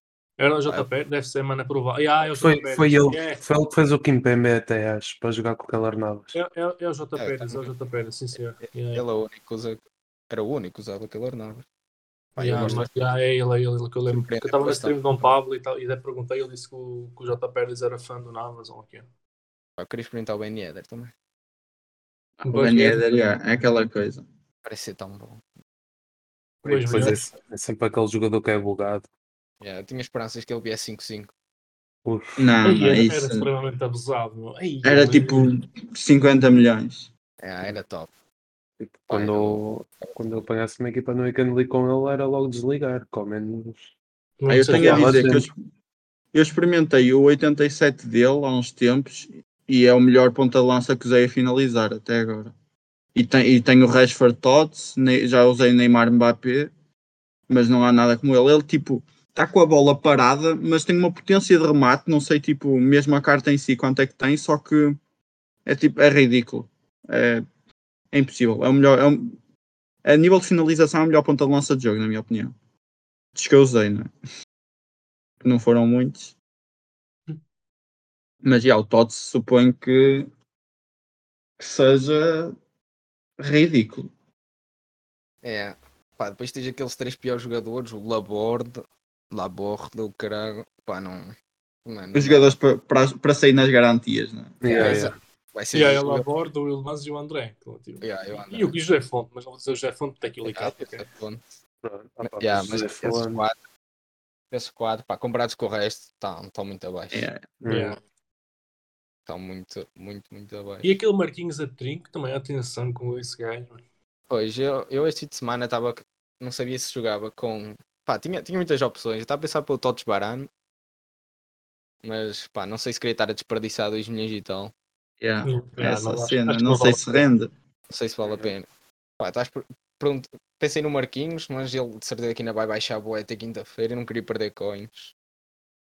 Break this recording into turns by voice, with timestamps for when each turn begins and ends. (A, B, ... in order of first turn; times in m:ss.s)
0:00.4-0:03.4 A
0:02.4-0:06.4 B
0:06.3-0:09.0 A
0:07.2-0:07.7 C
0:08.6-0:11.6 C
0:12.4-0:13.0 C
0:12.4-0:19.1 A
0:14.1-0:15.3 C
0:19.8-0:21.1 C
0:22.4-0:24.2 D
0:22.4-0:23.3 A
0:24.6-0:25.4 C
0:26.6-0:27.2 A
0:26.7-0:29.1 B
0:26.7-0:27.2 C
0:29.6-0:31.3 C
0:32.0-0:32.5 B
0:32.4-0:33.5 D
0:32.6-0:35.5 A
0:34.8-0:37.1 D
0:37.4-0:38.1 C
0:38.8-0:43.9 B
0:39.1-0:40.4 C
0:44.4-0:45.4 A
0:44.5-0:45.5 D
0:44.7-0:45.4 B
0:46.3-0:52.5 D
0:53.1-0:56.7 D
0:57.5-1:05.0 D
1:05.6-1:07.4 D
1:08.1-1:09.4 D
1:10.0-1:12.5 D
1:13.3-1:14.1 D
1:15.4-1:16.3 D
1:18.4-1:20.3 D
1:21.6-1:22.5 D
1:23.4-1:24.1 D
1:25.4-1:32.5 C
1:32.1-1:34.6 D
1:34.6-1:35.2 B
1:34.6-1:36.3 C
1:35.7-1:41.1 A
1:38.0-1:38.8 C
1:40.4-1:41.4 C
1:41.8-1:43.4 B
1:42.2-1:43.6 C
1:44.5-1:47.3 C
1:47.1-1:47.4 D
1:47.6-1:48.0 B
1:47.7-1:48.0 A
1:49.3-1:50.9 C
1:50.8-1:53.8 A
1:54.3-2:00.5 C
2:02.0-2:04.7 C
2:05.2-2:07.5 D
2:05.4-2:07.2 A
2:07.9-2:08.7 C
2:09.2-2:15.1 C